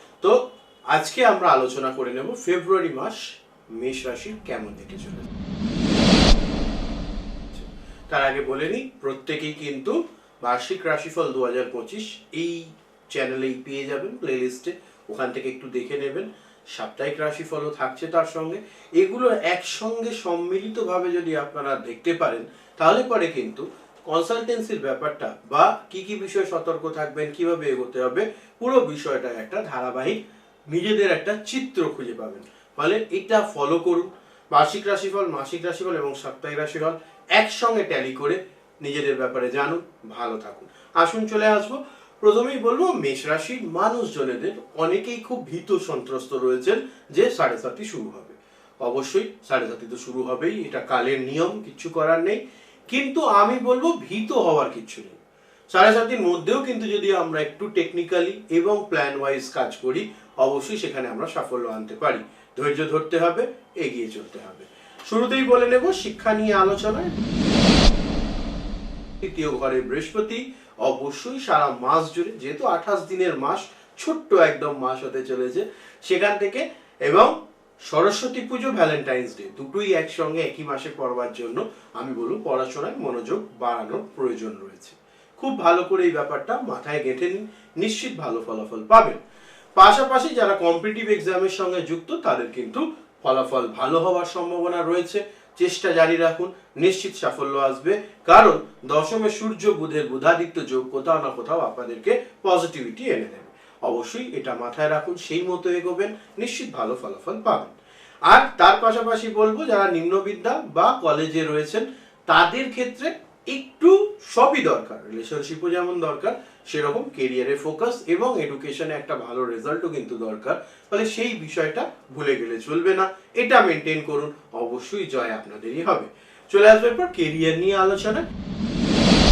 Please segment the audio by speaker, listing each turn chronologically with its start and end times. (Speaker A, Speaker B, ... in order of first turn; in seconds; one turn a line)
Speaker A: 0.2-5.3
Speaker A: 7.5-30.2
Speaker A: 30.7-55.2
Speaker A: 55.7-67.1
Speaker A: 69.2-77.3
Speaker A: 77.9-89.2
Speaker A: 89.8-107.7
Speaker A: 108.3-128.2